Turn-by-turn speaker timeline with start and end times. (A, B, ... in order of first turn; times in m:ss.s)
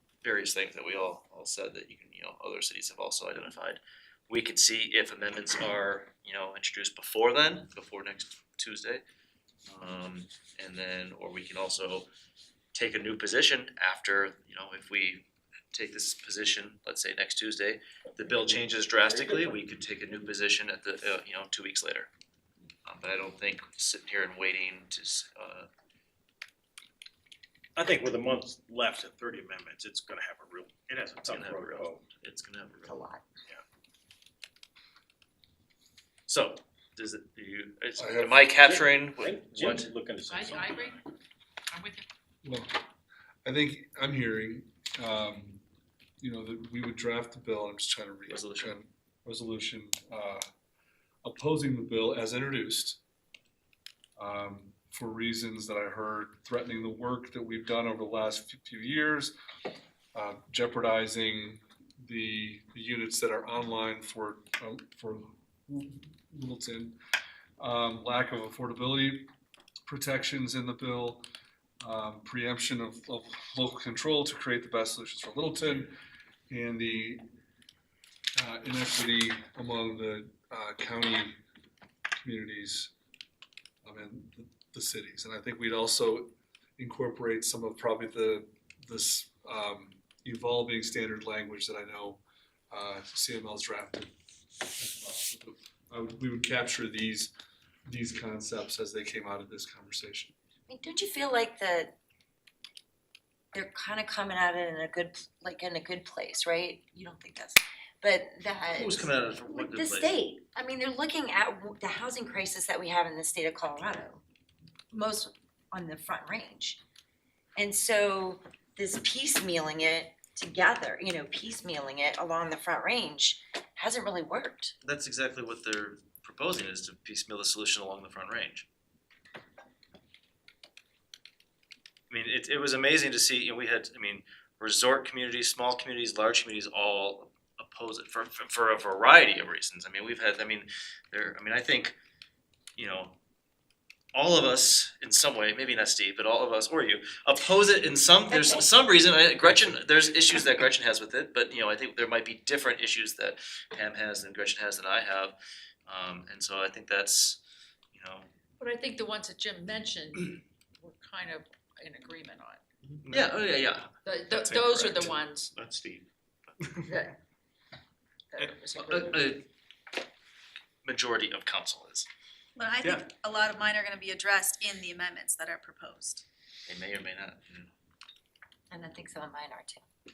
0:00.2-0:09.0 A
0:09.7-0:12.1 A
0:12.7-0:22.1 A
0:19.0-0:19.6 B
0:22.9-0:25.7 A
0:27.8-0:32.0 B
0:31.3-0:33.0 A
0:32.9-0:33.2 C
0:36.3-0:39.9 A
0:38.0-0:38.5 D
0:38.6-0:40.9 B
0:40.3-0:41.1 E
0:41.7-0:42.1 E
0:42.4-0:42.8 D
0:43.4-0:45.6 D
0:46.2-0:50.4 D
0:48.3-0:48.8 A
0:51.2-0:53.0 D
0:54.2-0:59.3 D
1:00.1-1:07.0 D
1:07.6-1:09.3 D
1:09.9-1:11.2 D
1:11.8-1:16.0 D
1:16.5-1:17.2 D
1:18.4-1:21.4 D
1:22.2-1:22.9 D
1:23.8-1:34.1 D
1:34.8-1:37.3 D
1:37.9-1:40.3 D
1:40.7-1:42.0 C
1:43.5-1:54.2 C
1:48.7-1:50.2 A
1:54.9-1:56.8 C
1:57.6-2:04.7 C
2:04.8-2:08.7 A
2:12.1-2:22.0 A
2:22.8-2:23.2 A
2:24.1-2:35.4 A
2:28.3-2:28.6 C
2:35.9-2:37.4 A
2:37.9-2:38.3 A
2:38.6-2:42.6 E
2:42.8-2:43.5 F
2:43.1-2:43.9 A
2:44.0-2:45.5 E
2:44.3-2:47.0 F
2:46.9-2:47.2 E
2:48.3-2:49.3 E
2:48.8-2:49.4 A
2:50.8-2:52.1 A
2:52.6-2:56.2 G
2:52.8-2:53.1 F
2:56.7-2:57.7 A
2:58.7-2:59.9 C